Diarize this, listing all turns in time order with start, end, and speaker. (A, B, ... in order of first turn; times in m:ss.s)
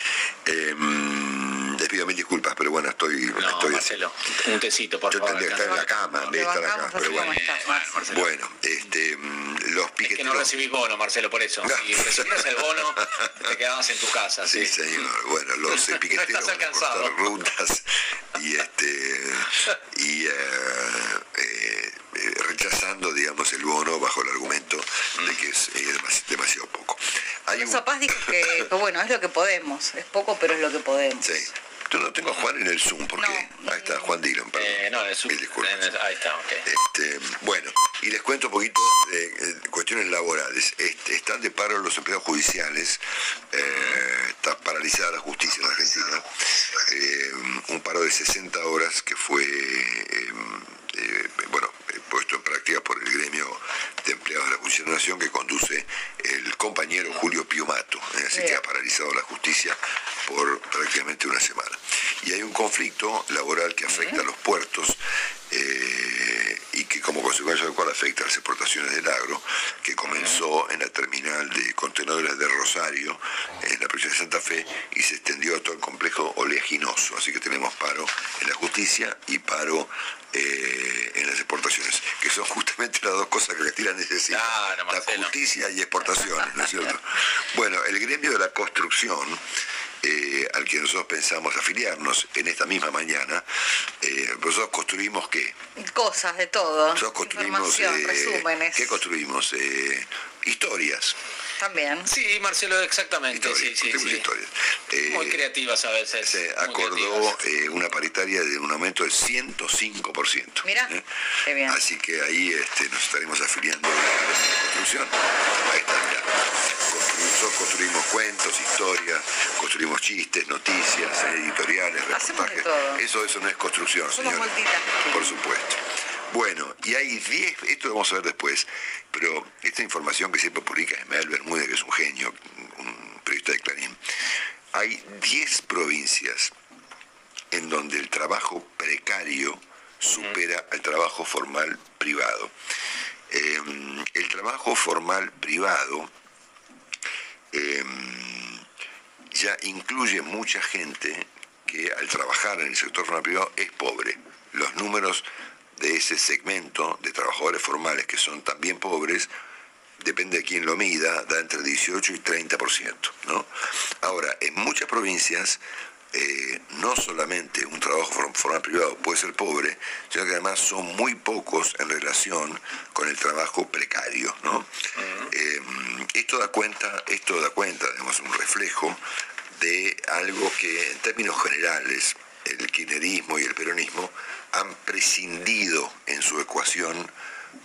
0:00.4-0:04.1 A
0:03.4-0:06.3 B
0:05.1-0:07.4 A
0:05.6-0:08.1 C
0:07.0-0:08.3 B
0:08.1-0:10.5 A
0:10.0-0:15.0 B
0:11.6-0:13.0 A
0:14.5-0:28.7 A
0:15.7-0:17.3 B
0:27.5-0:31.5 C
0:31.2-0:35.9 A
0:33.2-0:34.0 C
0:34.6-0:36.6 B
0:36.6-0:43.0 A
0:43.5-1:05.0 A
0:43.6-0:44.0 B
1:03.9-1:04.2 B
1:05.5-1:29.4 A
1:10.1-1:10.4 B
1:24.3-1:25.3 B
1:30.0-1:35.6 A
1:35.8-1:39.0 C
1:36.9-1:41.2 A
1:41.6-1:42.1 C
1:42.0-1:44.3 B
1:43.3-1:45.5 A
1:45.0-1:47.4 B
1:46.2-1:51.0 A
1:50.6-1:50.9 C
1:51.4-1:51.8 C
1:51.6-2:04.6 A
2:02.1-2:03.0 C
2:04.1-2:05.4 C
2:05.1-2:14.0 A
2:14.7-2:16.5 A
2:17.5-2:22.5 A
2:23.3-2:26.1 A
2:27.5-2:28.6 A
2:29.3-2:39.3 A
2:40.0-2:43.5 A
2:44.0-2:45.6 A
2:46.1-2:59.0 A
2:55.0-2:55.3 B
2:59.6-3:07.1 A